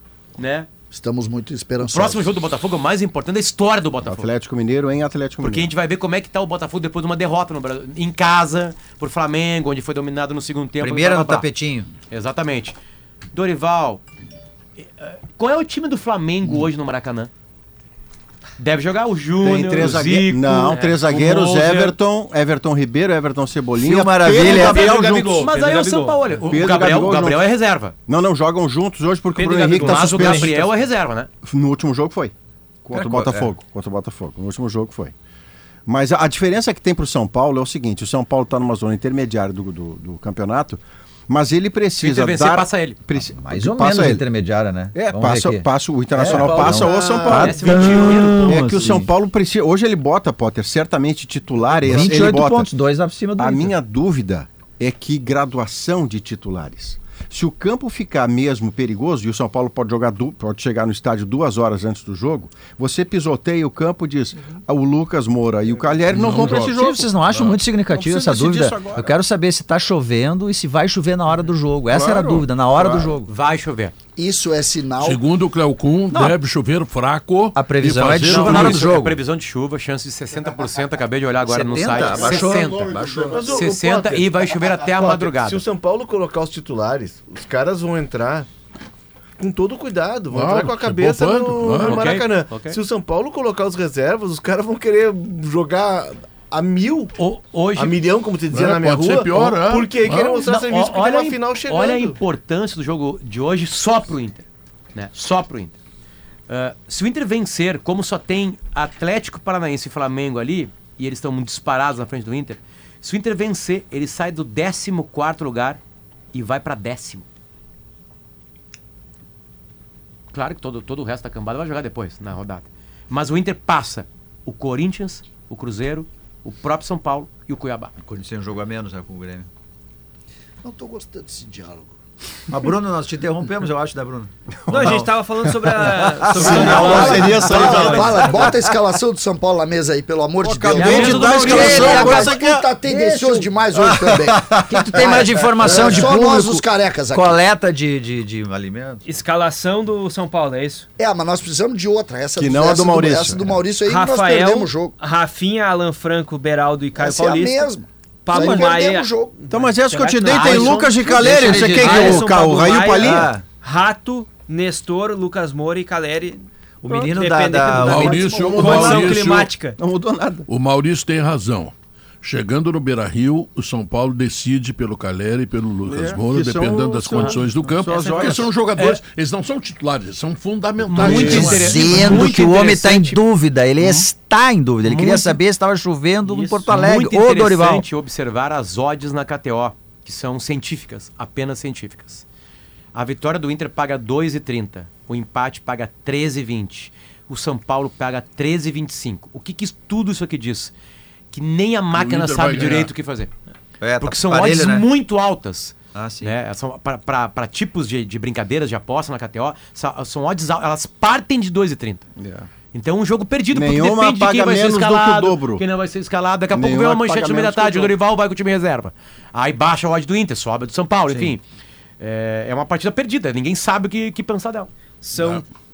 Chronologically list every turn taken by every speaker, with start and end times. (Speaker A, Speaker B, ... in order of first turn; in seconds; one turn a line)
Speaker A: 0.4-0.7
Speaker B: 0.9-2.3
Speaker A: 1.8-4.3
Speaker C: 4.0-5.7
Speaker A: 5.4-11.5
Speaker D: 10.8-11.9
Speaker A: 12.1-12.8
Speaker A: 13.3-14.0
Speaker A: 14.8-17.3
Speaker A: 18.6-21.9
Speaker C: 19.4-25.5
Speaker E: 20.7-21.0
Speaker D: 23.8-24.9
Speaker F: 24.3-25.4
Speaker E: 24.4-26.3
Speaker A: 25.4-27.9
Speaker C: 26.4-27.5
Speaker C: 28.1-30.6
Speaker A: 29.4-31.3
Speaker E: 29.7-30.7
Speaker C: 31.4-32.3
Speaker C: 32.9-35.1
Speaker D: 32.9-33.5
Speaker C: 35.9-44.3
Speaker A: 42.0-43.0
Speaker D: 43.2-49.1
Speaker C: 44.9-52.7
Speaker F: 46.3-47.7
Speaker A: 47.1-48.7
Speaker D: 51.8-53.7
Speaker C: 53.4-67.2
Speaker G: 66.1-67.6
Speaker D: 66.3-73.3
Speaker C: 67.8-69.2
Speaker C: 71.9-73.2
Speaker A: 73.3-73.9
Speaker B: 74.2-75.2
Speaker G: 75.0-78.9
Speaker D: 77.5-79.2
Speaker A: 78.2-85.6
Speaker D: 81.4-83.5
Speaker F: 83.1-88.5
Speaker F: 89.4-97.1
Speaker G: 90.3-92.1
Speaker A: 91.8-92.8
Speaker A: 97.2-98.0
Speaker F: 97.7-102.2
Speaker G: 98.5-100.4
Speaker A: 100.4-105.8
Speaker A: 106.5-115.8
Speaker A: 116.3-117.2
Speaker A: 120.3-127.9
Speaker D: 128.0-129.5
Speaker B: 130.6-131.9
Speaker D: 132.5-135.1
Speaker C: 134.7-135.6
Speaker E: 134.7-138.4
Speaker D: 135.7-138.7
Speaker C: 136.2-138.2
Speaker B: 136.3-147.4
Speaker A: 137.5-138.1
Speaker C: 140.4-142.7
Speaker A: 140.7-142.1
Speaker D: 140.8-143.5
Speaker C: 143.8-146.1
Speaker D: 144.6-149.0
Speaker E: 149.0-150.9
Speaker B: 151.0-154.9
Speaker C: 152.4-153.5
Speaker E: 153.8-157.7
Speaker B: 157.0-159.3
Speaker E: 158.2-169.8
Speaker C: 158.3-158.7
Speaker C: 159.5-163.3
Speaker A: 160.3-162.2
Speaker D: 160.8-162.2
Speaker D: 162.9-163.4
Speaker D: 166.8-168.7
Speaker G: 167.7-169.5
Speaker C: 168.6-169.2
Speaker C: 169.8-170.4
Speaker G: 170.5-182.3
Speaker C: 175.8-178.5
Speaker A: 177.1-179.0
Speaker A: 180.8-183.2
Speaker F: 181.0-181.6
Speaker D: 181.3-187.8
Speaker B: 183.8-184.1
Speaker A: 184.8-185.4
Speaker A: 186.2-192.2
Speaker A: 192.9-200.7
Speaker A: 201.3-203.3
Speaker G: 201.9-202.9
Speaker D: 203.8-204.9
Speaker A: 204.0-212.0
Speaker D: 205.9-206.3
Speaker C: 212.2-212.5
Speaker A: 212.7-221.4
Speaker C: 213.5-215.6
Speaker C: 216.5-217.9
Speaker A: 222.0-224.7
Speaker E: 225.0-225.4
Speaker G: 225.1-225.4